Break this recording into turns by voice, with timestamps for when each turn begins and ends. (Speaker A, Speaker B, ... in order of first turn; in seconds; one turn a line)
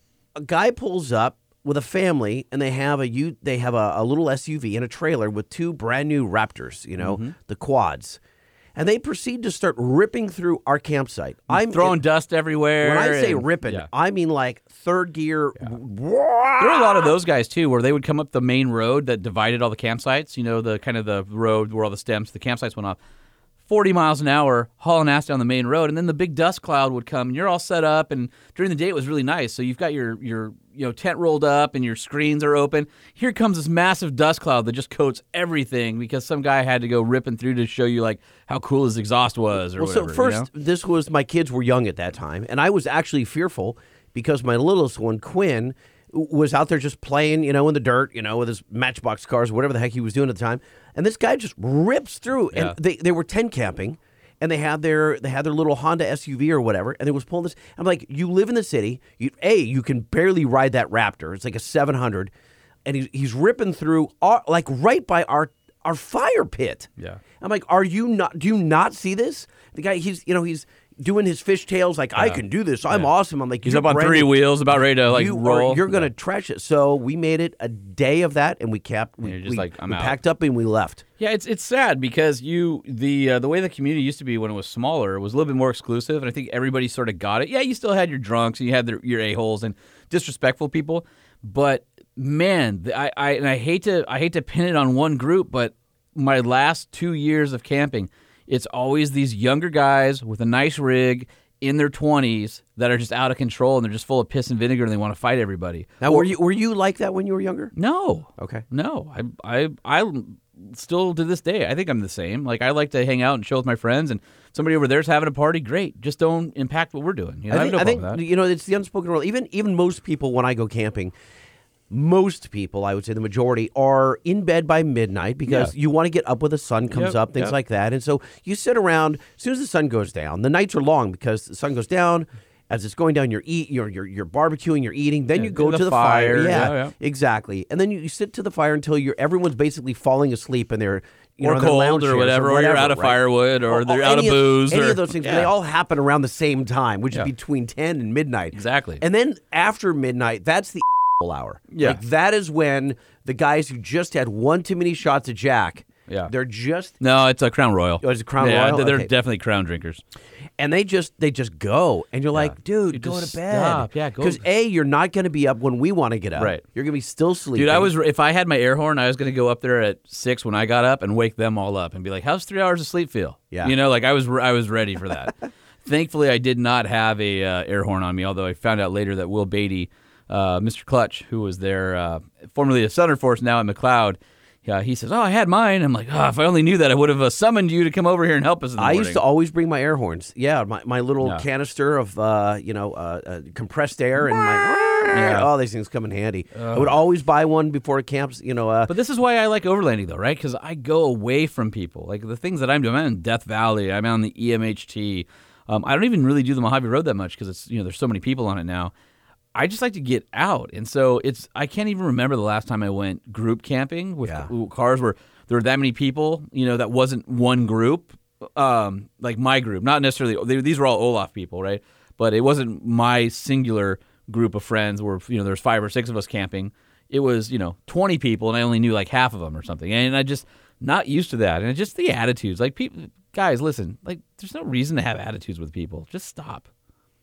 Speaker A: 0.3-8.2
Speaker B: 7.0-7.3
Speaker A: 8.7-12.0
Speaker B: 11.5-13.9
Speaker A: 12.8-17.1
Speaker B: 16.6-23.0
Speaker B: 23.6-40.5
Speaker A: 39.7-62.3
Speaker A: 62.8-66.9
Speaker A: 67.4-81.0
Speaker B: 72.2-73.1
Speaker B: 73.6-76.1
Speaker B: 79.2-80.2
Speaker B: 81.2-106.3
Speaker A: 106.0-107.7
Speaker B: 107.7-118.2
Speaker A: 108.4-108.6
Speaker A: 117.5-121.1
Speaker A: 121.9-157.0
Speaker B: 125.5-125.7
Speaker B: 126.9-127.5
Speaker B: 135.3-136.9
Speaker B: 141.4-145.5
Speaker B: 148.5-149.0
Speaker B: 151.7-152.0
Speaker B: 157.0-160.0
Speaker A: 158.0-159.1
Speaker A: 160.6-167.9
Speaker B: 162.3-164.4
Speaker B: 166.3-166.6
Speaker B: 167.5-189.2
Speaker A: 188.8-198.9
Speaker B: 195.1-195.5
Speaker B: 196.5-197.0
Speaker B: 198.9-208.9
Speaker B: 209.5-236.7
Speaker A: 214.2-214.5